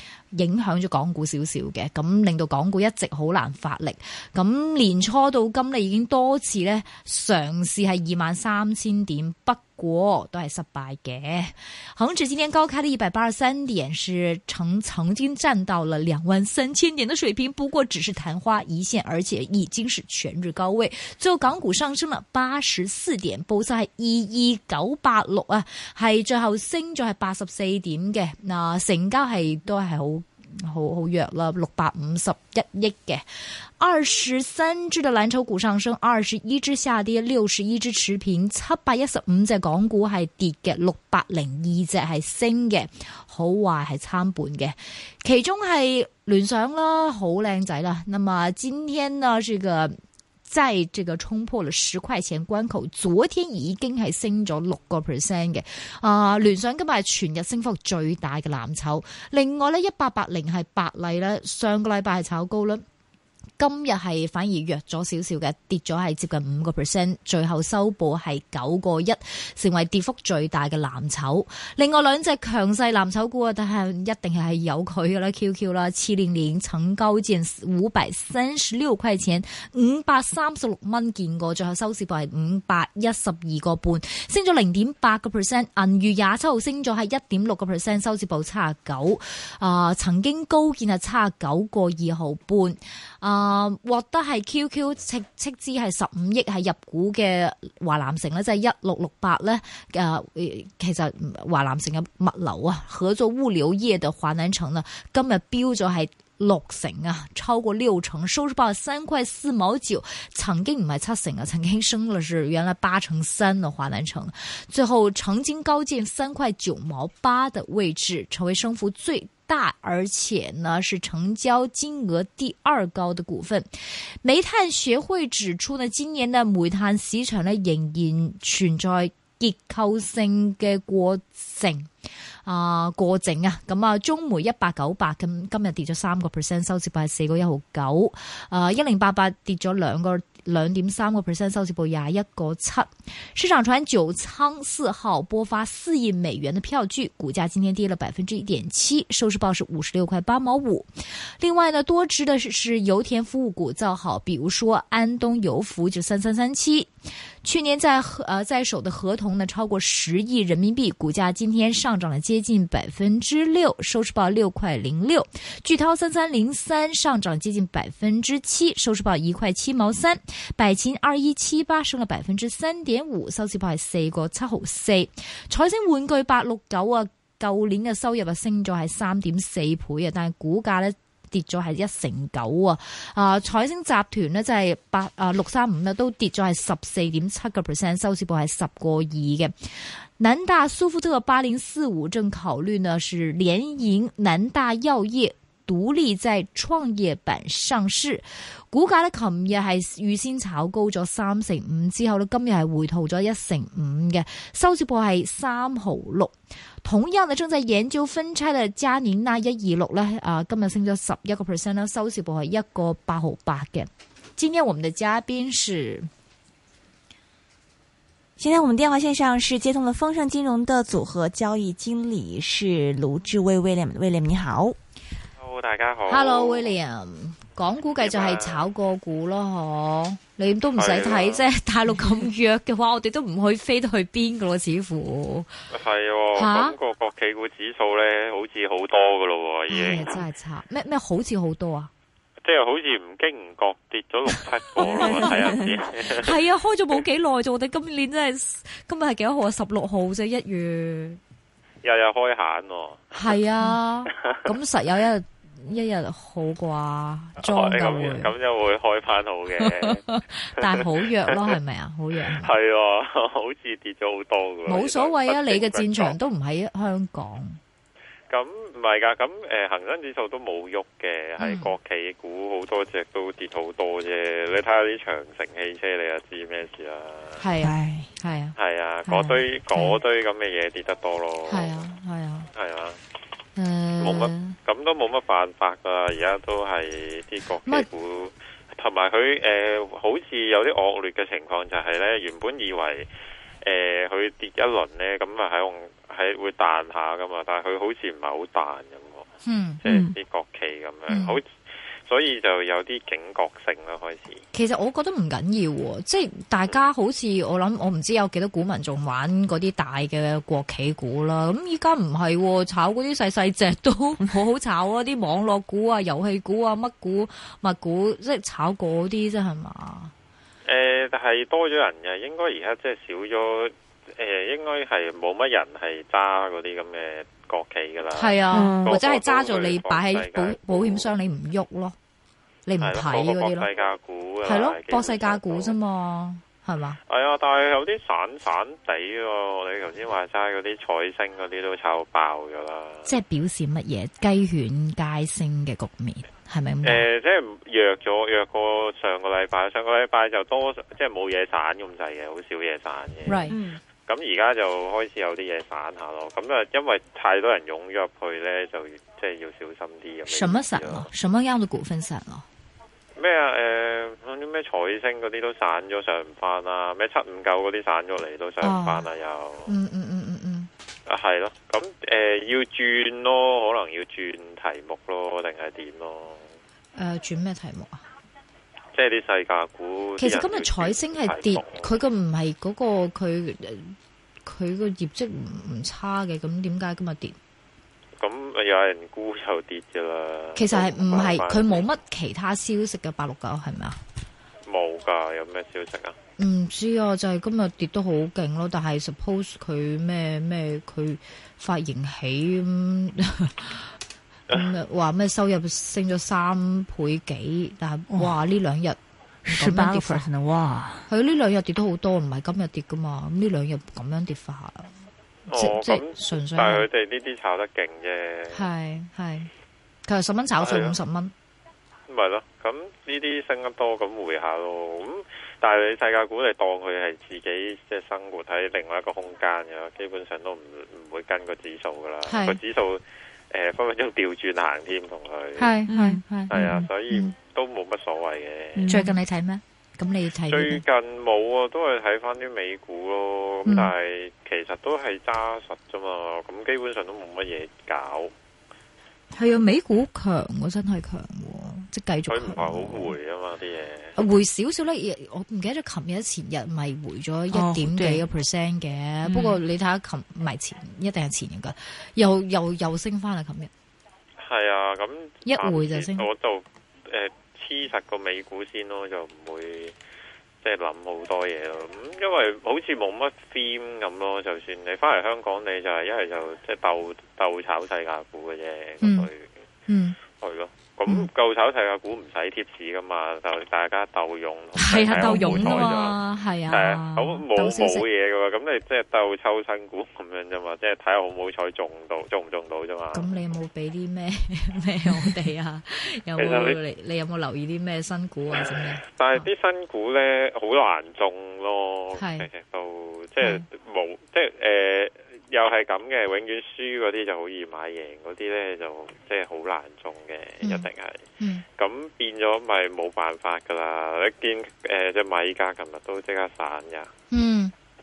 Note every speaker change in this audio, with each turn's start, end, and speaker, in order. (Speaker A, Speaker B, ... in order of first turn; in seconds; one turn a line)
Speaker A: 0.3-49.9
Speaker A: 50.5-62.8
Speaker A: 63.6-123.7
Speaker A: 124.2-131.9
Speaker A: 132.4-156.9
Speaker A: 157.4-216.1
Speaker B: 218.4-224.8
Speaker C: 225.4-226.8
Speaker A: 226.1-235.5
Speaker C: 228.0-228.7
Speaker C: 230.8-231.4
Speaker C: 235.7-240.2
Speaker A: 236.3-236.8
Speaker A: 239.7-241.9
Speaker C: 242.4-246.3
Speaker A: 244.8-251.2
Speaker B: 245.0-245.5
Speaker C: 251.8-253.3
Speaker A: 253.1-258.3
Speaker C: 254.1-254.4
Speaker C: 257.4-260.0
Speaker A: 259.6-262.5
Speaker C: 260.6-261.5
Speaker C: 262.3-266.2
Speaker A: 264.6-267.6
Speaker C: 268.3-277.4
Speaker A: 271.4-271.7
Speaker A: 277.4-280.0
Speaker B: 277.6-278.1
Speaker C: 278.6-281.9
Speaker A: 281.5-282.5
Speaker C: 282.5-283.0
Speaker A: 283.6-284.6
Speaker C: 284.0-293.1
Speaker C: 293.6-299.3
Speaker A: 299.4-299.8
Speaker C: 299.8-304.4
Speaker B: 299.8-300.1
Speaker A: 301.1-301.4
Speaker A: 304.5-320.1
Speaker C: 320.6-331.1
Speaker A: 328.1-331.9
Speaker B: 328.5-329.0
Speaker A: 332.6-333.7
Speaker C: 332.8-335.8
Speaker A: 334.4-337.0
Speaker C: 337.1-343.1
Speaker A: 343.1-347.1
Speaker C: 346.8-353.4
Speaker A: 353.2-353.6
Speaker B: 353.5-353.8
Speaker C: 354.1-361.1
Speaker A: 360.3-362.4
Speaker C: 363.2-369.8
Speaker A: 368.6-369.1
Speaker A: 369.7-370.7
Speaker C: 371.1-376.5
Speaker A: 376.9-378.0
Speaker C: 378.9-382.0
Speaker A: 380.2-387.4
Speaker C: 388.2-391.9
Speaker A: 390.6-394.0
Speaker C: 394.6-396.1
Speaker A: 396.4-403.9
Speaker C: 404.5-404.8
Speaker A: 404.5-409.0
Speaker B: 408.1-408.4
Speaker B: 409.4-411.1
Speaker A: 409.5-410.2
Speaker A: 411.1-414.9
Speaker C: 415.5-418.7
Speaker A: 415.5-416.9
Speaker A: 418.5-419.5
Speaker A: 420.1-421.3
Speaker C: 420.6-420.9
Speaker C: 422.1-435.7
Speaker A: 432.2-432.6
Speaker A: 435.6-436.6
Speaker B: 435.9-436.9
Speaker C: 436.5-439.0
Speaker B: 438.7-439.1
Speaker A: 438.9-440.8
Speaker C: 440.5-448.3
Speaker A: 443.6-443.9
Speaker A: 449.3-453.2
Speaker C: 452.3-454.1
Speaker A: 454.1-463.7
Speaker B: 457.5-458.2
Speaker B: 459.2-459.6
Speaker C: 464.4-469.9
Speaker A: 465.4-466.3
Speaker C: 470.6-479.5
Speaker A: 479.0-479.3
Speaker A: 479.9-480.2
Speaker C: 480.4-486.2
Speaker A: 484.8-488.0
Speaker B: 485.2-485.9
Speaker C: 486.7-493.3
Speaker A: 493.1-499.4
Speaker C: 496.4-496.8
Speaker C: 498.6-511.2
Speaker A: 502.1-502.5
Speaker A: 503.4-503.6
Speaker A: 510.6-510.9
Speaker C: 511.8-517.1
Speaker A: 517.3-517.7